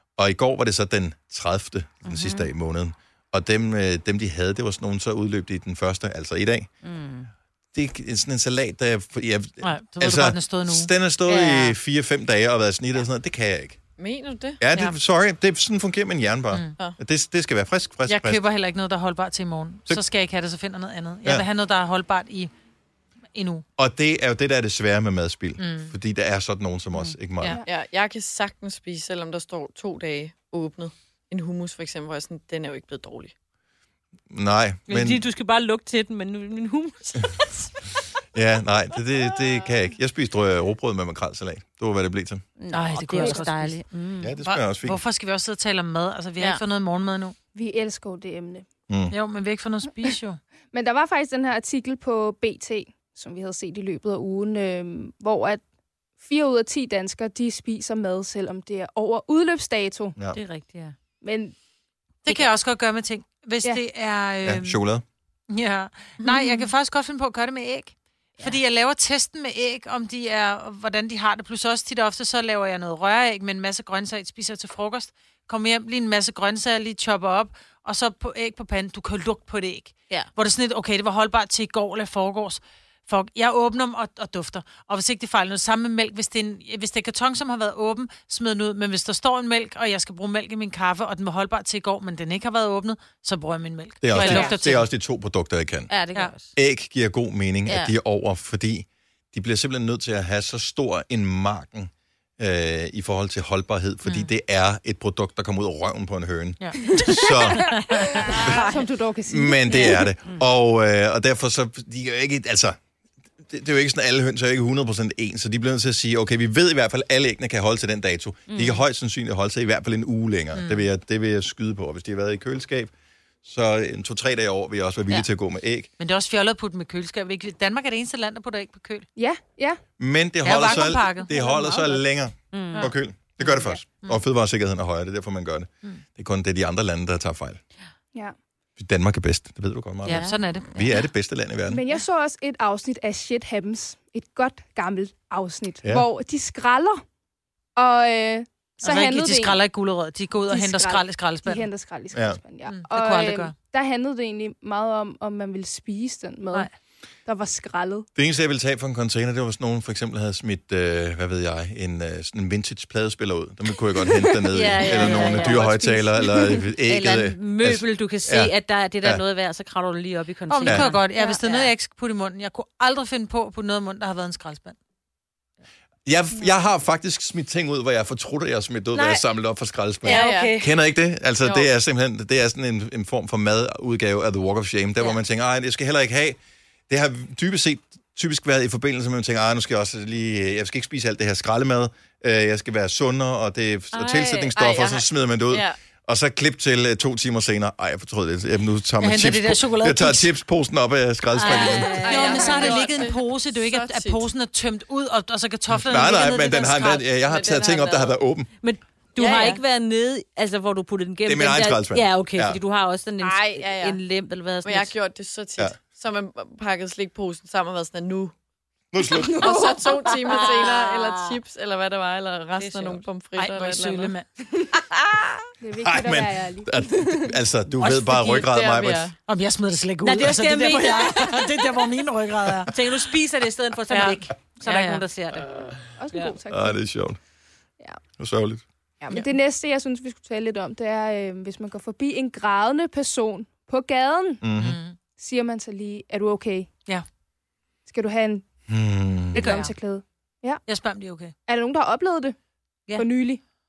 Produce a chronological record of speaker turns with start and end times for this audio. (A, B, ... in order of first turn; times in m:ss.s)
0:00.2-0:06.7 A
0:02.0-0:02.5 B
0:06.8-0:07.3 B
0:07.7-0:13.8 A
0:09.6-0:10.9 C
0:11.3-0:11.8 B
0:14.0-0:15.0 D
0:14.6-0:18.4 A
0:18.1-0:22.5 C
0:23.3-0:23.6 C
0:23.8-0:27.6 A
0:25.6-0:25.9 C
0:27.6-0:33.3 D
0:34.3-0:35.2 A
0:34.9-0:37.7 B
0:38.3-0:42.4 A
0:42.6-0:44.3 B
0:42.7-0:43.8 C
0:44.2-0:45.0 A
0:44.4-0:47.4 C
0:47.6-0:48.6 E
0:48.9-0:49.2 A
0:49.1-0:50.4 C
0:50.7-0:55.6 E
0:56.2-1:00.2 E
1:00.3-1:01.0 B
1:01.2-1:01.6 E
1:02.2-1:04.8 C
1:04.4-1:05.0 A
1:05.5-1:34.9 C
1:06.2-1:06.5 D
1:34.0-1:35.9 A
1:34.1-1:34.6 B
1:35.9-1:36.5 B
1:36.6-1:48.7 A
1:37.7-1:37.9 B
1:44.0-1:44.3 C
1:46.6-1:47.0 C
1:47.9-1:48.5 B
1:47.9-1:50.1 E
1:48.1-1:48.7 C
1:49.3-1:52.8 A
1:49.7-1:50.4 B
1:53.5-2:02.9 A
1:58.5-1:58.8 B
2:00.5-2:00.9 C
2:03.4-2:05.9 A
2:06.0-2:09.1 C
2:09.2-2:09.8 E
2:10.0-2:17.6 A
2:10.4-2:11.6 C
2:12.5-2:12.9 B
2:18.8-2:21.8 A
2:20.0-2:20.4 B
2:20.0-2:20.7 C
2:21.7-2:27.0 E
2:27.8-2:29.6 E
2:28.8-2:31.7 C
2:30.5-2:36.7 E
2:32.1-2:32.4 A
2:32.7-2:33.5 C
2:37.3-2:38.1 E
2:38.2-2:49.2 A
2:44.5-2:51.7 B
2:46.2-2:46.6 E
2:50.5-2:54.8 C
2:50.7-2:50.9 A
2:56.1-3:06.4 A
2:58.9-2:59.2 B
3:00.0-3:00.6 D
3:00.0-3:00.7 B
3:01.4-3:01.7 D
3:06.9-3:22.1 A
3:13.9-3:14.5 B
3:14.5-3:15.8 D
3:19.0-3:20.3 C
3:21.4-3:23.0 B
3:21.4-3:27.1 C
3:22.0-3:24.2 D
3:25.7-3:28.5 A
3:27.2-3:28.2 D
3:28.6-3:34.9 B
3:29.2-3:29.6 D
3:31.2-3:32.6 A
3:33.2-3:34.0 D
3:34.6-3:38.4 D
3:38.9-3:39.5 A
3:39.1-3:40.5 E
3:39.4-3:44.1 D
3:40.3-3:41.4 B
3:42.6-3:43.0 B
3:43.4-3:44.3 C
3:45.6-3:47.4 E
3:45.8-3:49.1 A
3:47.9-3:49.2 D
3:49.3-3:52.8 C
3:50.0-3:51.9 B
3:52.7-3:55.5 B
3:53.9-3:55.0 C
3:56.0-3:56.8 E
3:56.5-3:57.2 A
3:58.2-3:58.6 A
3:59.0-4:04.4 E
4:04.4-4:04.8 A
4:04.6-4:05.0 C
4:05.2-4:06.7 E
4:07.9-4:08.5 E
4:08.7-4:09.6 A
4:09.3-4:10.6 E
4:09.4-4:09.7 C
4:10.7-4:11.3 C
4:11.5-4:12.4 E
4:13.0-4:13.4 E